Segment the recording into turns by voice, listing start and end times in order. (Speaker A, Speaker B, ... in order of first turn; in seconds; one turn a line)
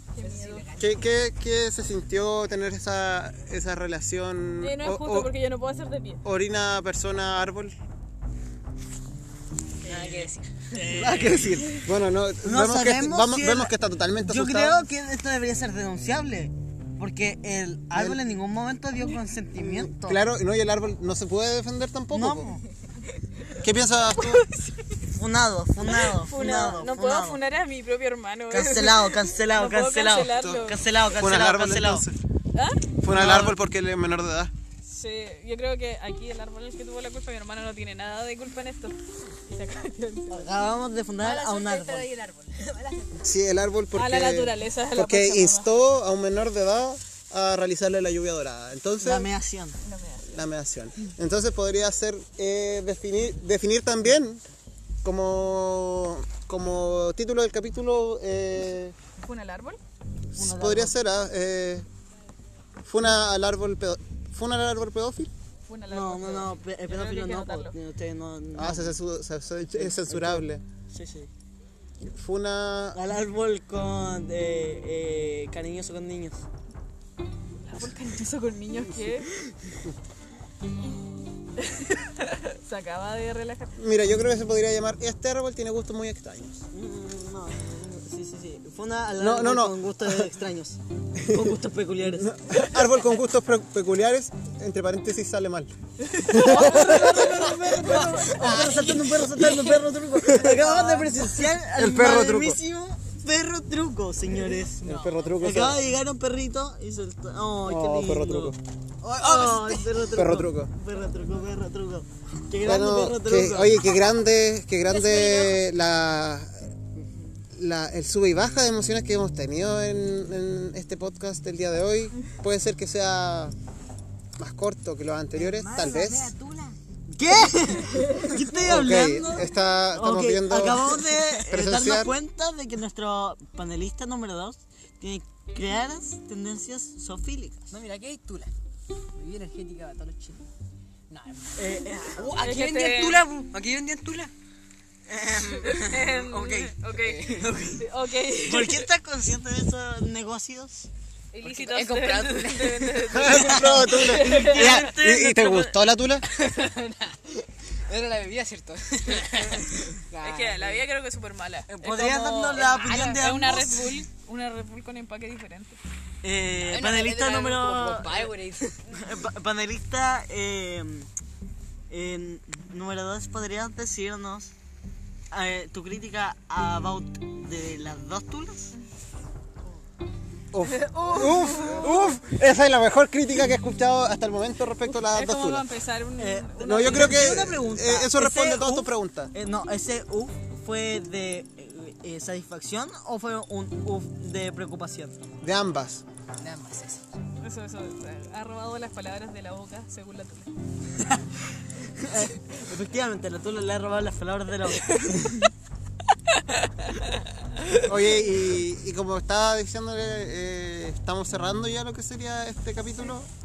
Speaker A: 0.1-0.7
Speaker B: 0.2-1.1
Speaker C: 0.8-5.3
Speaker A: 4.6-6.2
Speaker C: 6.2-7.8
Speaker D: 9.8-11.7
Speaker B: 9.8-11.2
Speaker C: 10.9-14.8
Speaker D: 12.4-20.2
Speaker C: 17.9-18.2
Speaker C: 19.6-22.5
Speaker D: 22.1-22.6
Speaker C: 23.6-24.5
Speaker A: 24.2-25.0
Speaker D: 25.1-27.4
Speaker A: 25.8-30.8
Speaker D: 28.5-32.1
Speaker C: 31.2-32.1
Speaker A: 32.5-33.2
Speaker C: 33.0-34.5
Speaker D: 33.1-33.5
Speaker A: 34.9-40.5
Speaker D: 40.3-42.1
Speaker B: 41.2-43.2
Speaker C: 43.2-49.3
Speaker A: 44.0-45.7
Speaker D: 49.0-49.8
Speaker A: 49.8-50.5
Speaker C: 50.3-54.4
Speaker C: 55.0-59.0
Speaker A: 59.2-59.8
Speaker C: 60.3-61.9
Speaker D: 60.4-61.0
Speaker C: 62.8-65.3
Speaker A: 65.7-67.7
Speaker D: 65.9-69.0
Speaker C: 68.5-70.6
Speaker D: 69.7-71.3
Speaker C: 72.0-73.0
Speaker D: 72.9-76.5
Speaker A: 77.6-79.3
Speaker A: 81.6-83.7
Speaker C: 83.8-86.7
Speaker D: 86.7-92.4
Speaker C: 89.2-90.3
Speaker C: 91.2-91.6
Speaker C: 92.1-95.7
Speaker A: 96.0-99.6
Speaker C: 96.2-97.1
Speaker D: 96.3-104.8
Speaker B: 96.6-99.4
Speaker B: 100.4-101.1
Speaker C: 101.7-102.6
Speaker B: 104.7-105.8
Speaker C: 104.8-105.8
Speaker D: 105.4-114.0
Speaker C: 107.7-108.6
Speaker B: 109.2-109.7
Speaker C: 110.0-110.7
Speaker C: 112.6-116.8
Speaker A: 114.9-115.6
Speaker D: 117.0-117.4
Speaker C: 117.5-123.5
Speaker C: 124.4-126.3
Speaker B: 125.3-126.8
Speaker D: 127.1-137.8
Speaker C: 128.6-132.1
Speaker B: 137.7-138.5
Speaker B: 139.2-140.5
Speaker B: 141.1-144.3
Speaker D: 141.6-142.4
Speaker A: 142.4-143.2
Speaker D: 145.1-146.7
Speaker A: 145.6-148.9
Speaker B: 146.3-147.6
Speaker D: 147.4-147.8
Speaker D: 148.4-150.9
Speaker A: 151.3-154.8
Speaker B: 151.4-153.8
Speaker C: 153.1-156.3
Speaker D: 153.8-155.8
Speaker B: 156.2-160.8
Speaker A: 160.2-161.8
Speaker D: 161.7-164.0
Speaker B: 161.8-163.6
Speaker A: 162.5-165.8
Speaker D: 166.2-168.3
Speaker B: 166.6-169.2
Speaker D: 168.9-171.1
Speaker D: 171.9-174.5
Speaker D: 175.3-178.8
Speaker C: 180.5-185.7
Speaker A: 180.7-181.9
Speaker B: 181.1-181.9
Speaker A: 185.0-187.3
Speaker D: 186.2-195.2
Speaker C: 186.6-189.3
Speaker C: 195.4-196.0
Speaker B: 196.4-197.1
Speaker A: 197.4-200.5
Speaker D: 201.9-205.4
Speaker A: 204.9-205.3
Speaker A: 206.4-207.8
Speaker C: 207.8-213.3